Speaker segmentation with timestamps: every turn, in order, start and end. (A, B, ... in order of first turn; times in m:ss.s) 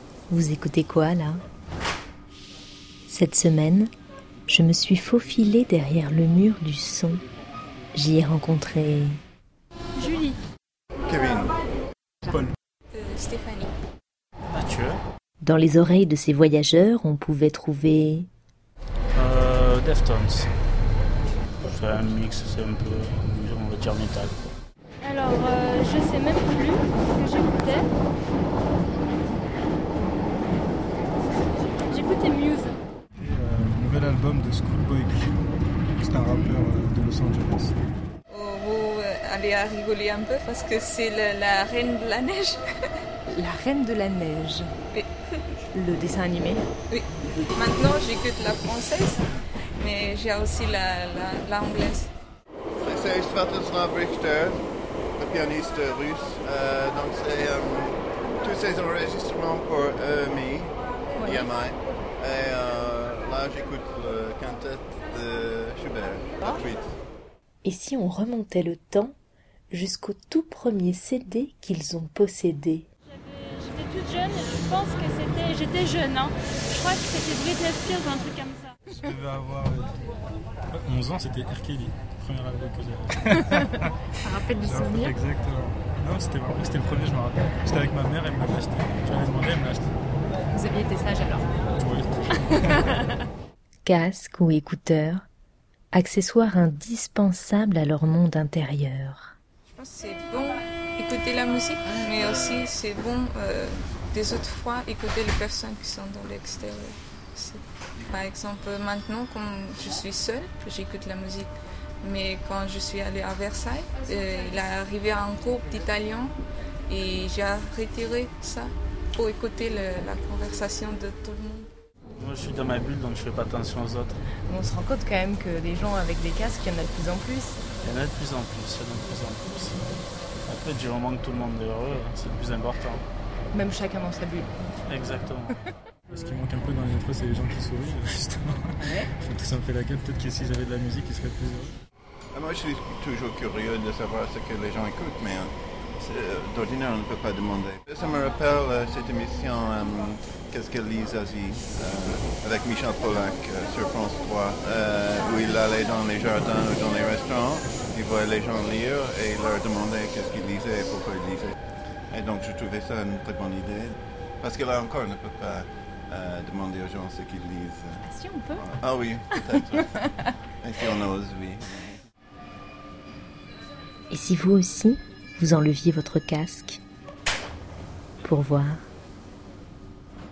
0:00.3-0:01.4 A
0:03.1-0:03.9 A
0:04.5-0:07.2 A
0:07.9-0:09.2 A
0:10.0-0:10.4 B
0:11.0-0:11.6 C
0:12.9-0:13.7 D
0:14.5-0:15.0 E
0:15.4-0:18.3 A
0:19.1-0:20.5 E
0:21.6-0:24.5 E
0:25.0-0:27.9 B
0:31.8-0:32.8 B
0:33.2-0:35.4 F
0:36.0-0:37.8 F
0:38.3-0:42.6 D
0:43.3-0:44.7 G
0:44.9-0:45.4 D
0:45.7-0:46.6 G
0:46.9-0:49.2 D
0:49.8-0:52.1 D
0:52.8-0:54.6 C
0:55.2-1:06.9 C
1:01.2-1:01.5 G
1:07.6-1:09.2 A
1:09.7-1:12.9 A
1:13.2-1:18.7 B
1:18.9-1:20.0 F
1:20.7-1:23.9 F
1:24.2-1:25.2 G
1:24.6-1:29.9 F
1:30.5-1:31.5 G
1:31.8-1:33.0 F
1:33.8-1:35.2 A
1:35.9-1:39.4 A
1:39.7-1:56.4 D
1:56.9-2:01.7 D
2:02.2-2:04.2 E
2:04.5-2:07.6 G
2:07.8-2:13.0 E
2:13.5-2:14.5 G
2:14.9-2:15.6 E
2:16.1-2:21.8 F
2:18.8-2:19.1 G
2:22.3-2:41.6 C
2:42.1-2:49.9 C
2:48.0-2:48.6 G
2:50.6-2:52.0 C
2:54.1-2:56.8 A
2:58.2-2:58.8 A